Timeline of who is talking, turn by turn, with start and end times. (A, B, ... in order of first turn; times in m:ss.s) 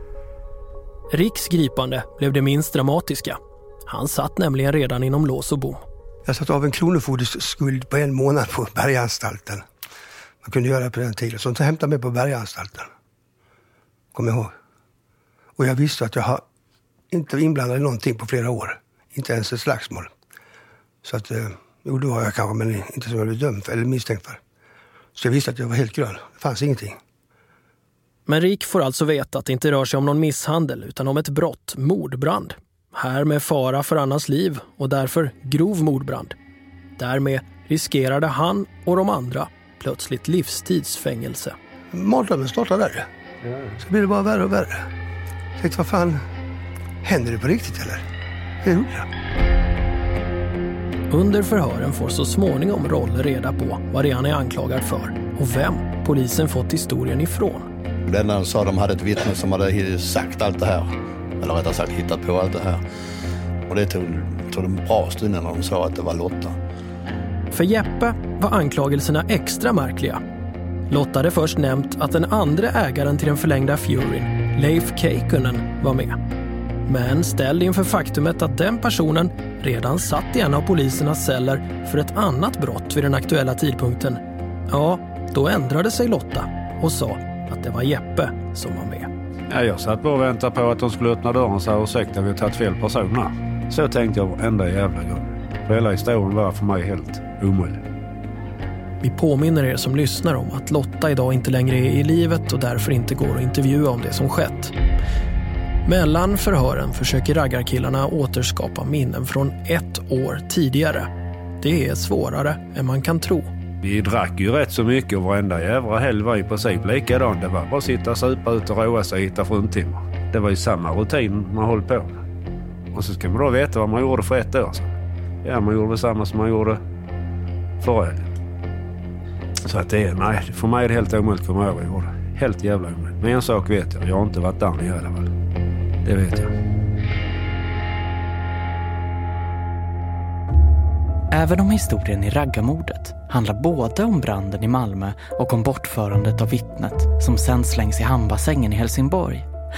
0:01.1-0:05.8 A
0:06.3-0:09.6 B
0:10.4-0:12.9 B
0:14.1-0:14.5 B
0:15.6-0:16.4 B
0:17.1-0:20.1 B
0:21.0-0:24.4 B
0:25.2-0:27.0 B
0:28.3-0:36.4 A
0:37.0-0:41.6 A
0:41.9-0:43.1 B
0:43.8-0:44.9 B
0:45.6-0:46.2 B
0:47.0-0:48.0 B
0:48.6-0:49.1 B
0:51.1-0:57.7 A
0:58.0-1:02.8 C
1:03.7-1:06.6 C
1:07.5-1:10.2 A
1:10.9-1:16.2 A
1:16.9-1:29.1 A
1:29.5-1:37.8 D
1:39.0-1:44.7 A
1:45.8-1:51.1 A
1:51.6-1:53.5 A
1:53.8-2:02.2 D
2:02.9-2:04.9 D
2:05.4-2:06.8 D
2:07.8-2:08.3 D
2:09.6-2:15.3 D
2:16.0-2:16.5 D
2:21.3-2:29.5 E